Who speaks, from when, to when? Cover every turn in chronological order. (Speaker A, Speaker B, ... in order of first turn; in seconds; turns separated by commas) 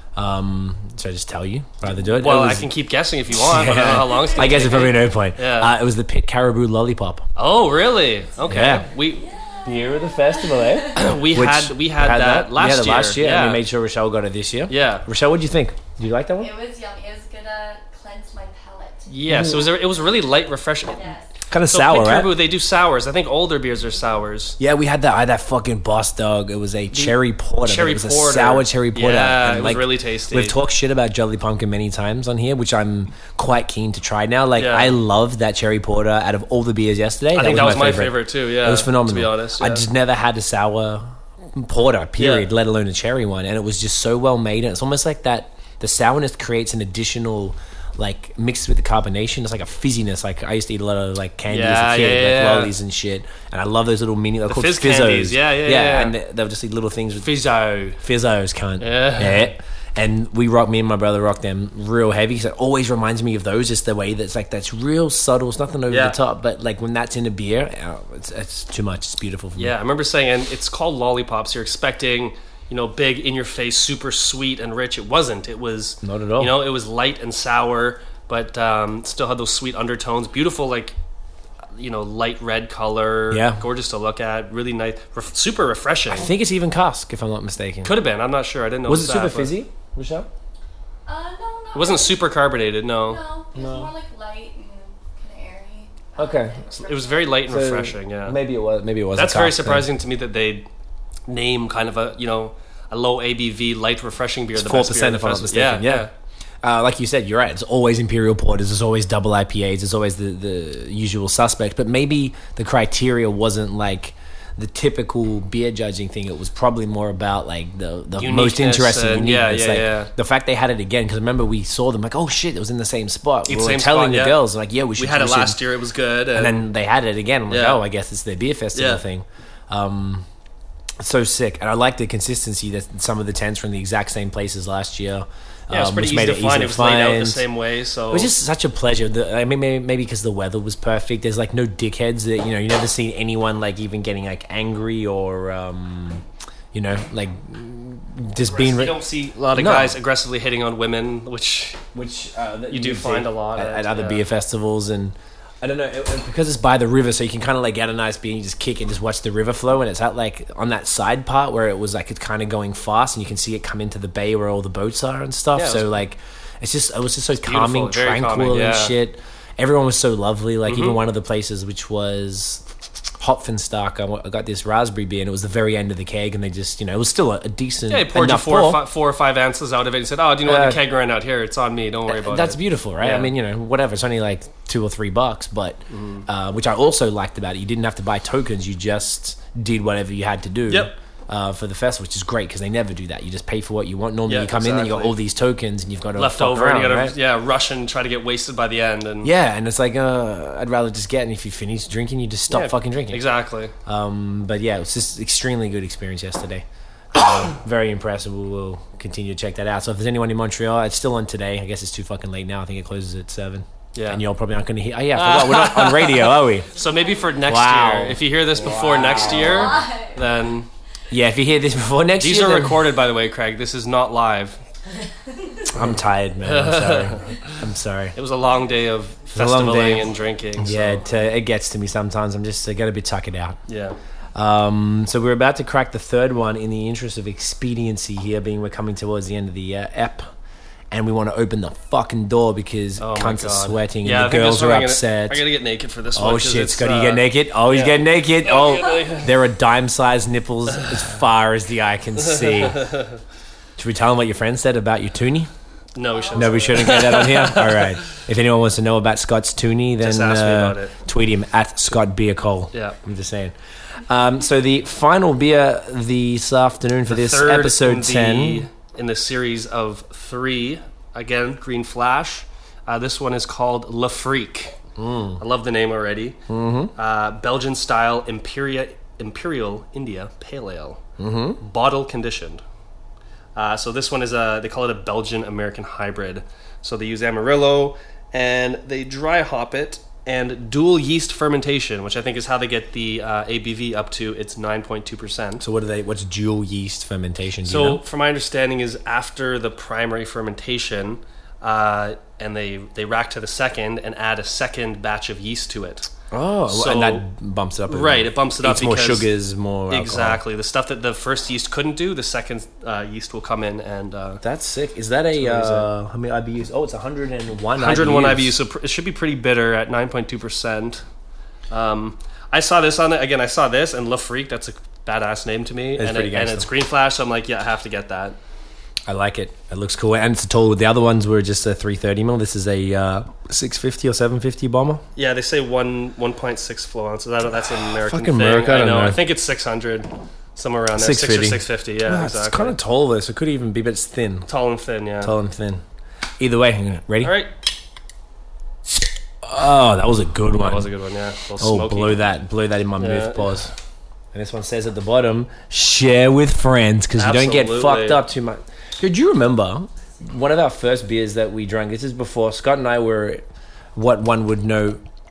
Speaker A: 0.2-2.7, Speaker B: 2.2-5.7, Speaker A: 3.3-7.3, Speaker B: 7.4-9.3, Speaker A: 8.5-8.9, Speaker C: 9.0-11.1, Speaker A: 9.7-16.5, Speaker B: 10.9-13.6, Speaker B: 14.7-15.1, Speaker C: 16.4-19.6, Speaker B: 19.1-21.1, Speaker A: 19.3-19.7, Speaker C: 20.9-21.3, Speaker A: 21.5-22.4, Speaker B: 21.7-24.6, Speaker A: 24.6-57.3, Speaker B: 26.9-30.6, Speaker B: 34.6-35.0, Speaker B: 37.3-39.8, Speaker B: 42.2-42.5, Speaker B: 51.5-52.7, Speaker B: 54.5-56.1, Speaker B: 57.2-58.0, Speaker A: 58.0-69.8, Speaker B: 58.8-59.5, Speaker B: 65.9-66.2, Speaker B: 69.6-81.0, Speaker A: 76.0-76.5, Speaker B: 81.8-86.3, Speaker A: 83.3-83.7, Speaker A: 86.1-87.9, Speaker B: 87.8-89.5, Speaker A: 88.9-90.3, Speaker C: 91.1-92.3, Speaker B: 91.8-93.2, Speaker C: 93.0-97.3, Speaker A: 93.5-93.9, Speaker A: 96.2-96.6, Speaker B: 96.7-98.4, Speaker A: 97.5-99.9, Speaker B: 99.2-100.7, Speaker B: 101.3-106.1, Speaker A: 104.5-106.1, Speaker A: 106.6-125.6, Speaker B: 118.2-120.1, Speaker B: 123.5-124.4, Speaker B: 125.0-126.7, Speaker A: 126.3-130.3, Speaker B: 127.5-127.8, Speaker B: 128.7-129.0, Speaker A: 131.0-137.4, Speaker B: 135.7-138.3, Speaker A: 138.1-149.0, Speaker B: 148.5-151.8, Speaker A: 149.6-150.0, Speaker A: 151.9-172.7, Speaker B: 152.7-154.2, Speaker B: 165.6-165.9, Speaker B: 167.4-168.9, Speaker B: 170.7-171.0, Speaker A: 173.2-178.8, Speaker B: 177.9-183.3, Speaker A: 180.4-180.8, Speaker A: 182.1-197.2, Speaker B: 185.9-186.2, Speaker B: 194.3-195.2, Speaker B: 196.2-199.3, Speaker A: 199.2-203.2, Speaker B: 202.5-203.7, Speaker A: 203.9-216.7, Speaker B: 213.9-214.2, Speaker B: 215.2-220.7, Speaker A: 217.5-219.8, Speaker C: 218.8-220.2, Speaker A: 221.1-222.9, Speaker B: 222.2-224.6, Speaker A: 225.7-228.2, Speaker B: 226.4-227.5, Speaker B: 228.2-231.0, Speaker A: 229.3-233.6, Speaker B: 233.7-234.0, Speaker A: 234.3-240.3, Speaker A: 240.9-245.4, Speaker B: 243.0-249.3, Speaker A: 246.2-252.9, Speaker B: 252.2-253.2, Speaker A: 253.8-255.5, Speaker B: 256.0-257.9, Speaker C: 256.2-257.1, Speaker A: 256.4-268.7, Speaker B: 260.0-260.9, Speaker B: 262.7-263.0, Speaker B: 267.1-274.8, Speaker A: 275.0-275.4, Speaker B: 275.4-276.4, Speaker A: 276.5-276.9, Speaker B: 276.9-281.0, Speaker A: 281.2-281.6, Speaker B: 281.6-282.6, Speaker B: 283.6-295.6, Speaker A: 295.6-298.0, Speaker B: 297.6-306.1, Speaker A: 306.3-310.4, Speaker B: 306.7-307.3, Speaker B: 307.9-309.3, Speaker B: 309.9-314.4, Speaker A: 314.4-318.6, Speaker B: 315.4-315.9, Speaker B: 317.8-321.0, Speaker B: 321.7-328.4, Speaker A: 326.0-326.7, Speaker A: 329.1-335.0, Speaker B: 335.2-342.8, Speaker A: 337.6-339.2, Speaker A: 341.0-344.5, Speaker B: 344.5-345.3, Speaker A: 345.2-345.8, Speaker A: 346.4-347.3, Speaker B: 347.2-347.5, Speaker A: 349.4-350.9, Speaker B: 350.6-352.2, Speaker A: 351.6-353.7, Speaker B: 353.0-353.7, Speaker A: 354.3-363.4, Speaker B: 357.2-358.2, Speaker A: 363.9-365.0